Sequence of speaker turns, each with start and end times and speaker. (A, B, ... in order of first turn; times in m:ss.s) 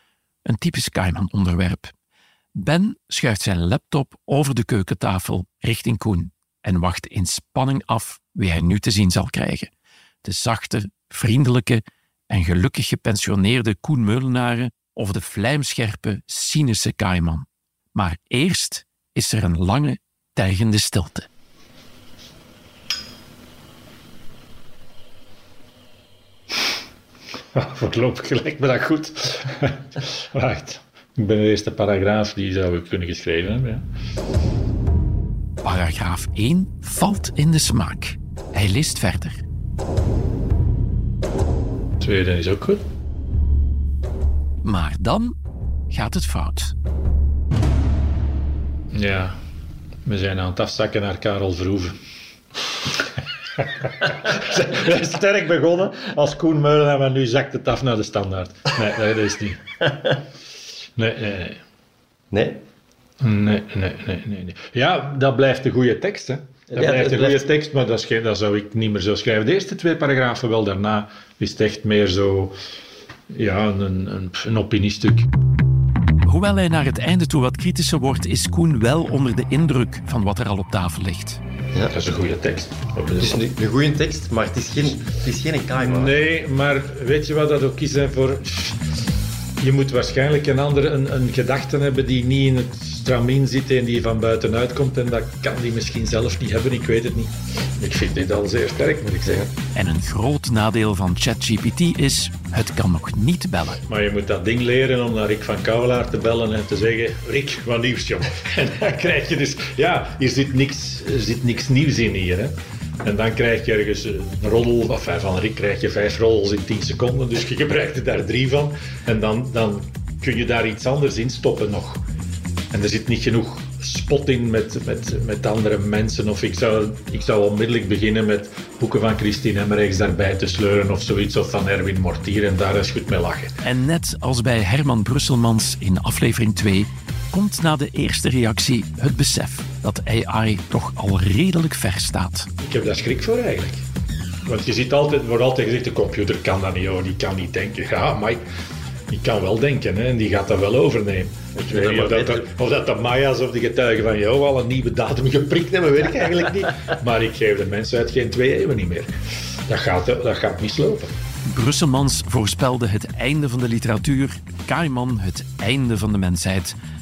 0:00.4-0:01.9 A
0:02.6-0:09.7 A
0:10.2-0:21.3 A
0:27.5-0:33.8 B
0:35.6-0:39.4 A
0:42.0-0:42.8 B
0:44.6-0:45.3 A
0:45.9-0:46.7 A
0:48.9-0:49.4 B
0:50.0-0:52.0 B
0:53.6-0:59.6 B
1:01.0-1:01.6 B
1:02.3-1:02.6 C
1:03.2-1:12.6 B
1:06.7-1:07.5 C
1:13.3-1:15.3 B
1:16.2-1:21.4 A
1:21.9-1:23.5 B
1:23.2-1:26.2 C
1:25.7-1:28.8 B
1:29.6-1:39.5 B
1:39.7-1:43.8 A
1:43.9-2:02.0 B
2:02.7-2:13.5 B
2:13.6-2:22.5 A
2:22.6-2:23.8 B
2:24.4-2:28.4 B
2:29.1-2:39.1 B
2:31.5-2:32.5 C
2:39.7-2:41.1 B
2:41.4-2:46.8 A